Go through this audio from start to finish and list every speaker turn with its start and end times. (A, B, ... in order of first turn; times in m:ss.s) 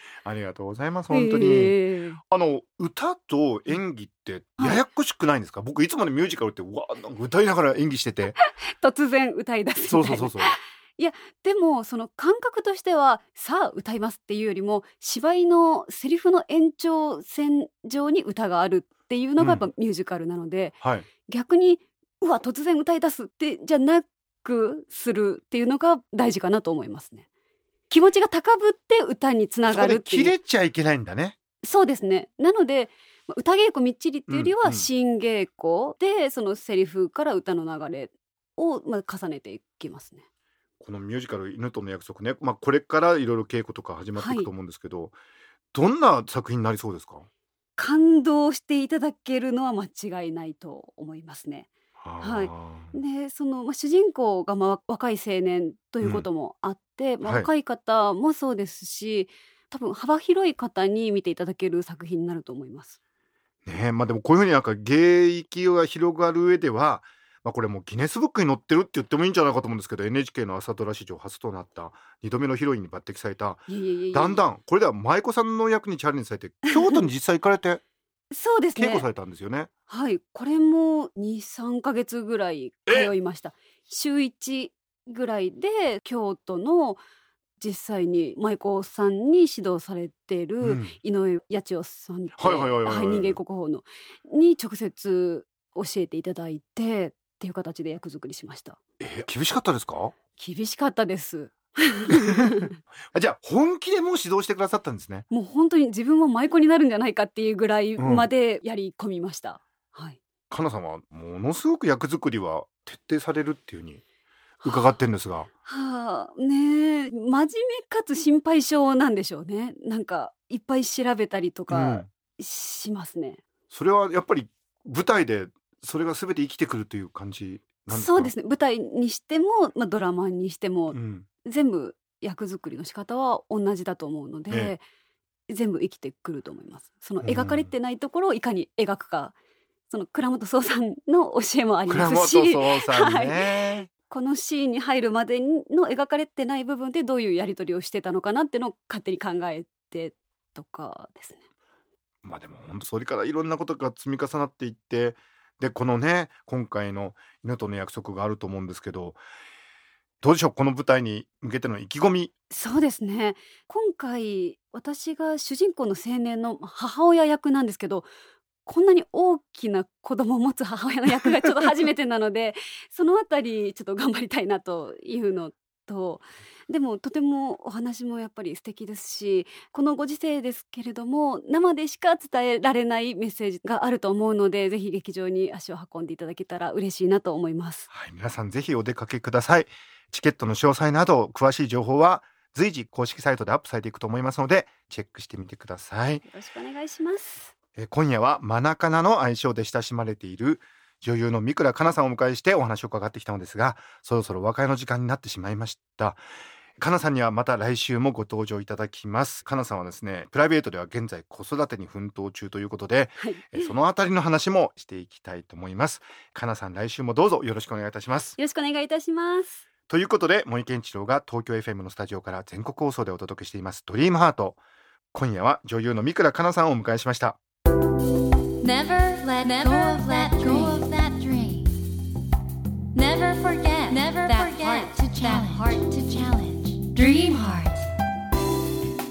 0:00.2-0:08.3 A
0:01.1-0:02.2 B
0:08.3-0:27.2 B
0:09.9-0:10.6 A
0:19.4-0:19.7 A
0:27.9-0:30.4 B
0:29.7-0:31.4 A
0:31.6-0:40.2 B
0:34.3-0:34.9 A
0:40.8-0:45.2 A
0:44.2-0:44.5 B
0:45.7-0:47.2 A
0:47.8-0:51.7 B
0:52.0-0:52.9 A
0:52.2-1:03.0 B
0:56.0-0:56.2 A
0:57.2-0:57.5 A
1:03.6-1:17.8 A
1:13.7-1:14.4 B
1:18.3-1:19.1 B
1:18.8-1:19.7 A
1:19.9-1:27.0 B
1:22.9-1:23.1 A
1:27.6-1:38.8 B
1:30.6-1:30.9 A
1:32.4-1:33.4 A
1:39.0-1:40.1 A
1:40.4-1:42.7 B
1:42.1-1:42.5 A
1:43.1-1:45.2 A
1:45.3-1:50.2 B
1:48.0-1:48.3 A
1:50.5-1:54.0 A
1:54.6-1:55.0 B
1:54.6-1:55.5 A
1:55.6-2:03.4 B
2:01.7-2:02.1 A
2:03.7-2:08.3 A
2:07.9-2:14.8 B
2:10.9-2:11.2 A
2:15.5-2:19.3 B
2:17.2-2:17.7 A
2:19.9-2:31.4 B
2:21.9-2:23.9 A
2:32.2-2:39.2 A
2:40.2-2:42.3 A
2:42.5-2:48.1 B
2:48.6-3:07.9 B
3:07.9-3:16.2 A
3:16.2-3:17.5 B
3:17.8-3:26.2 A
3:26.8-3:38.4 A
3:33.2-3:33.7 B
3:38.4-3:39.6 B
3:39.9-3:44.6 A
3:45.1-3:47.4 A
3:48.6-3:51.7 C
3:49.6-3:50.9 B
3:52.9-3:57.9 C
3:54.4-3:55.4 B